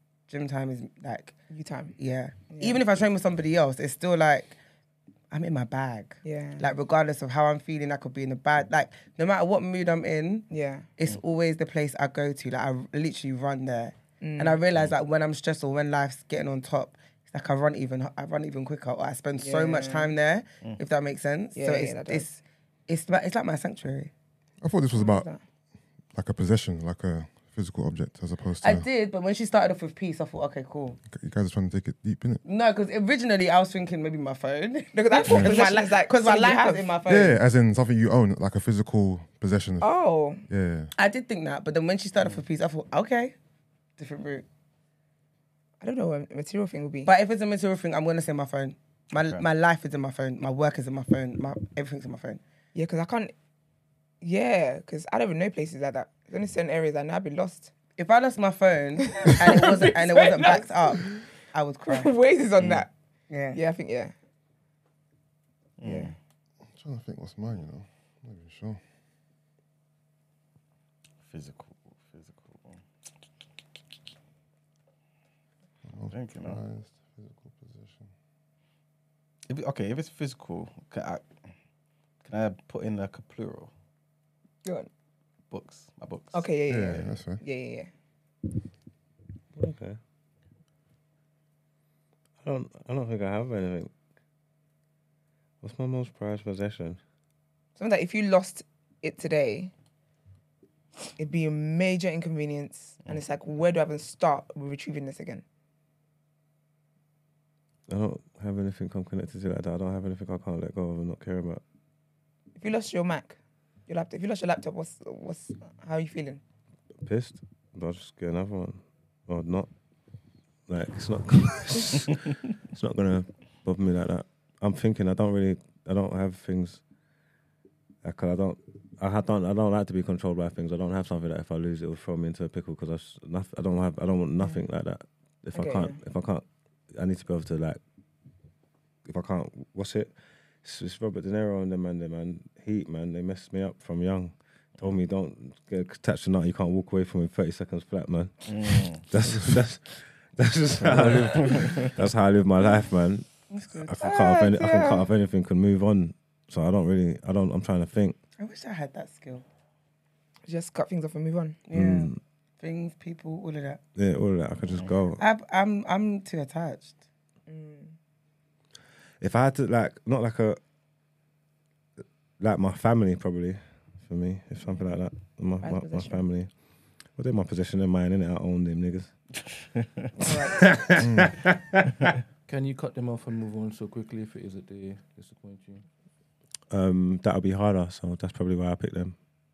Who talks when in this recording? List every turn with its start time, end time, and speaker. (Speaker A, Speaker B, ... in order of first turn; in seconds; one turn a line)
Speaker A: 0.3-1.4
Speaker B: 1.5-1.9
Speaker A: 2.0-4.6
Speaker B: 2.5-2.8
Speaker A: 5.3-24.1
Speaker B: 6.2-6.7
Speaker B: 10.5-10.9
Speaker B: 14.2-14.6
Speaker B: 19.4-20.1
Speaker B: 21.6-22.3
Speaker C: 24.6-25.3
Speaker B: 25.0-25.4
Speaker C: 26.1-28.9
Speaker A: 28.6-31.0
Speaker C: 31.1-32.4
Speaker A: 32.4-37.4
Speaker B: 34.9-36.9
Speaker C: 35.3-35.5
Speaker C: 37.1-39.9
Speaker B: 39.8-40.4
Speaker C: 40.5-40.9
Speaker A: 41.0-43.4
Speaker A: 44.0-44.5
Speaker B: 45.8-47.1
Speaker A: 47.0-52.4
Speaker B: 52.8-53.3
Speaker B: 54.2-57.7
Speaker A: 58.0-62.1
Speaker B: 59.1-61.2
Speaker B: 61.9-62.9
Speaker D: 62.6-62.8
Speaker A: 63.3-63.6
Speaker B: 63.5-64.1
Speaker D: 65.8-66.2
Speaker B: 65.8-66.1
Speaker C: 66.7-68.8
Speaker D: 71.3-72.8
Speaker C: 75.9-78.1
Speaker D: 76.1-76.6
Speaker D: 79.5-81.4
Speaker D: 82.2-83.7
Speaker B: 84.6-84.9
Speaker D: 85.5-87.1
Speaker B: 86.3-87.9
Speaker C: 86.7-87.4
Speaker E: 92.4-93.9
Speaker E: 95.6-97.0
Speaker B: 97.8-99.7
Speaker B: 101.2-105.4
Speaker E: 107.9-111.6
Speaker B: 112.6-116.4
Speaker E: 117.0-119.7
Speaker E: 120.7-122.2
Speaker E: 122.7-126.8
Speaker E: 128.0-137.8
Speaker B: 135.5-136.0
Speaker E: 139.1-158.2
Speaker D: 148.5-149.1
Speaker C: 151.0-151.3
Speaker D: 151.4-151.9
Speaker A: 153.5-154.0
Speaker B: 154.0-155.1
Speaker A: 158.4-159.4
Speaker B: 160.5-161.6
Speaker A: 161.7-163.8
Speaker E: 161.7-162.2
Speaker E: 164.0-165.2
Speaker A: 165.2-167.0
Speaker B: 167.5-167.9
Speaker E: 169.2-170.6
Speaker E: 172.4-179.2
Speaker B: 175.6-176.2
Speaker B: 180.2-180.6
Speaker E: 180.5-182.1
Speaker C: 181.0-181.4
Speaker F: 182.5-185.9
Speaker E: 186.7-189.2